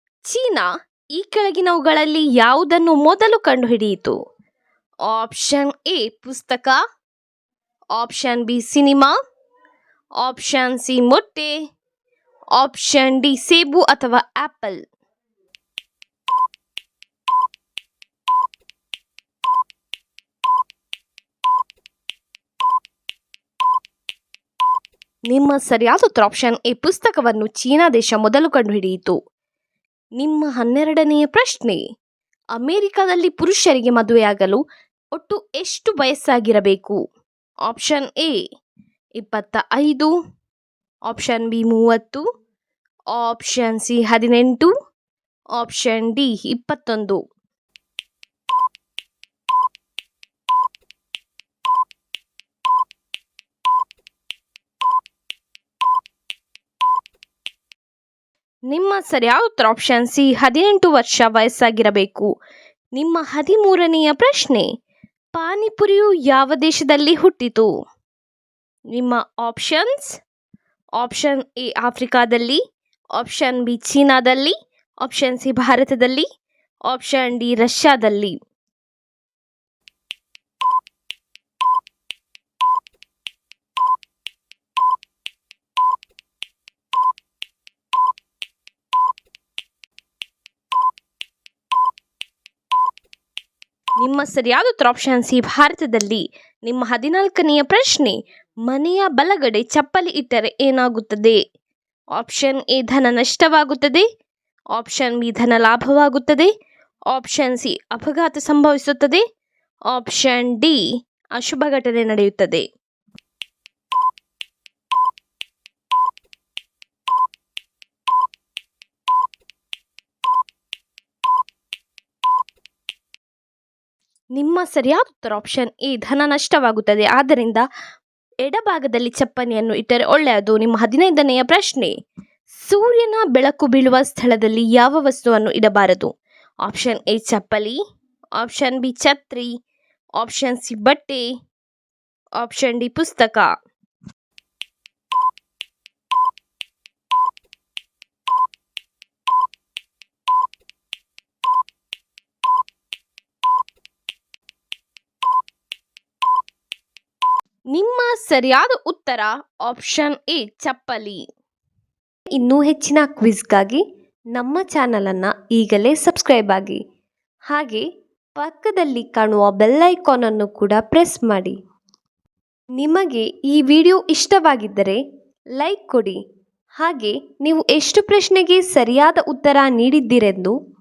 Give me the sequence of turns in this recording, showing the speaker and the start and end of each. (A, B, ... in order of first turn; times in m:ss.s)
0:00.2-0:04.1 A
0:05.1-0:06.8 A
0:08.0-0:09.1 A
0:10.2-0:11.5 A
0:12.6-0:14.8 A
0:25.3-0:29.2 A
0:30.2-0:31.8 A
0:32.5-0:34.6 A
0:35.2-0:37.0 A
0:37.7-0:38.4 A
0:39.2-0:40.1 A
0:41.1-0:42.2 A
0:43.1-0:44.7 A
0:45.6-0:47.2 A
0:58.7-1:02.3 A
1:03.0-1:04.7 A
1:05.3-1:07.7 A
1:08.9-1:10.1 A
1:11.0-1:12.6 A
1:13.1-1:16.2 A
1:16.8-1:18.4 A
1:34.0-1:41.4 A
1:42.2-1:44.0 A
1:44.7-1:46.5 A
1:47.1-1:49.2 A
1:49.9-1:50.8 A
1:51.4-1:52.6 A
2:04.4-2:07.6 A
2:08.4-2:11.9 A
2:12.6-2:16.1 A
2:16.6-2:17.8 A
2:18.4-2:19.5 A
2:20.2-2:21.3 A
2:22.4-2:23.5 A
2:37.7-2:41.2 A
2:42.4-2:43.8 A
2:44.4-2:46.8 A
2:47.5-2:47.8 A
2:48.4-2:51.5 A
2:52.8-2:55.0 A
2:55.6-2:56.2 A
2:56.8-3:00.5 A